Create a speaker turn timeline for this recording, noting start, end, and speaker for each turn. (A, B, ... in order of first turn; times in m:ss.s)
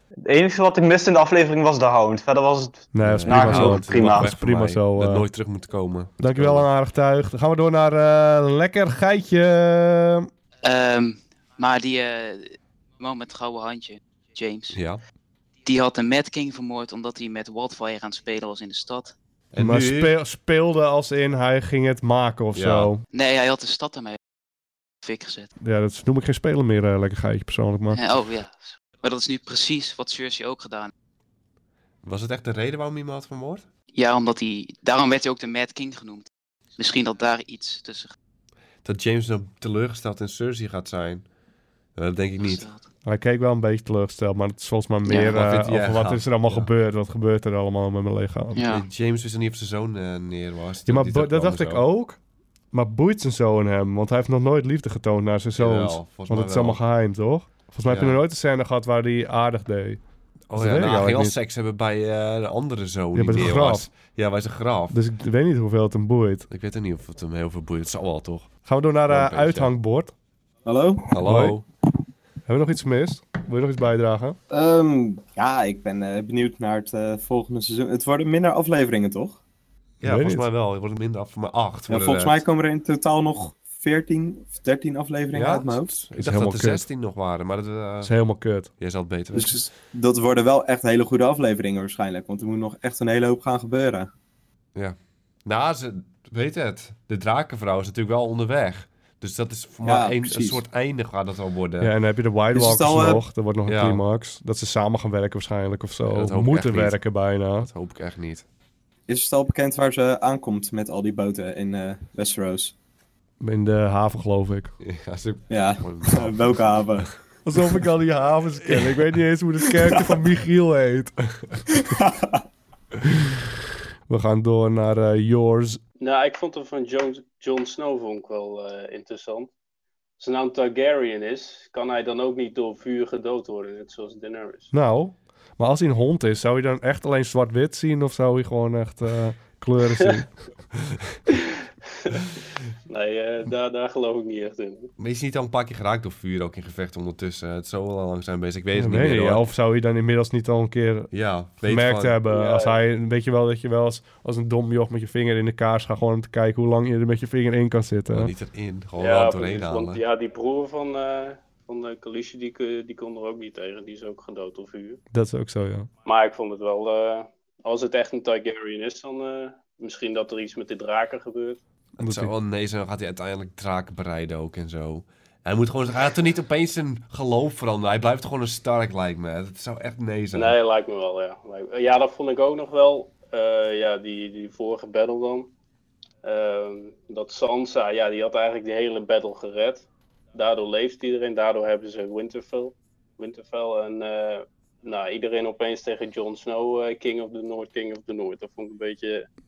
0:00.2-0:04.3 A
0:02.9-0:05.2 B
0:03.0-0:06.7 C
0:06.2-0:10.3 B
0:10.6-0:14.8 D
0:14.7-0:15.0 C
0:15.6-0:19.1 D
0:19.5-0:20.1 C
0:19.6-0:23.0 B
0:22.5-0:22.9 C
0:23.1-0:24.2 D
0:25.0-0:25.5 D
0:25.6-0:28.0 B
0:27.9-0:30.9 D
0:32.0-0:33.6 C
0:33.9-0:38.1 D
0:38.8-0:41.2 C
0:42.0-0:42.6 C
0:42.4-0:42.8 D
0:43.0-0:48.6 B
0:45.0-0:45.3 D
0:45.2-0:46.7 C
0:48.5-0:48.8 D
0:48.6-0:51.8 C
0:50.9-0:52.2 B
0:52.7-1:00.0 B
0:55.6-0:56.8 C
0:57.8-0:58.2 C
1:00.5-1:05.0 C
1:00.5-1:01.4 B
1:03.1-1:03.9 B
1:04.9-1:06.5 B
1:06.5-1:08.5 C
1:08.6-1:10.1 B
1:09.1-1:09.7 C
1:10.6-1:11.1 E
1:11.1-1:11.6 C
1:11.2-1:11.6 B
1:12.4-1:14.4 B
1:14.5-1:19.4 E
1:20.0-1:22.4 C
1:20.0-1:20.4 B
1:21.9-1:25.9 E
1:25.3-1:28.1 C
1:26.1-1:26.8 B
1:28.0-1:28.7 B
1:28.8-1:29.6 C
1:29.3-1:34.1 E
1:34.7-1:41.9 C
1:39.8-1:40.6 E
1:41.8-1:47.7 B
1:42.5-1:43.2 E
1:43.6-1:44.0 C
1:46.1-1:48.4 C
1:49.1-1:52.7 E
1:53.4-1:54.7 B
1:54.8-1:56.3 C
1:55.5-1:57.1 E
1:57.4-2:01.1 B
1:58.7-1:58.9 C
2:01.9-2:02.4 E
2:04.1-2:05.8 B
2:06.0-2:09.5 F
2:10.2-2:14.7 F
2:14.7-2:20.3 B
2:21.9-2:22.2 F
2:22.9-2:24.9 F
2:25.0-2:29.5 C
2:28.7-2:31.1 B
2:31.1-2:32.2 C
2:31.6-2:38.3 B
2:32.3-2:32.8 F
2:38.1-2:40.0 C
2:39.0-2:45.0 F
2:45.1-2:45.9 B
2:46.0-2:51.6 F
2:52.0-3:00.6 C
2:52.0-2:52.3 B
3:00.3-3:05.5 F
3:06.2-3:19.3 F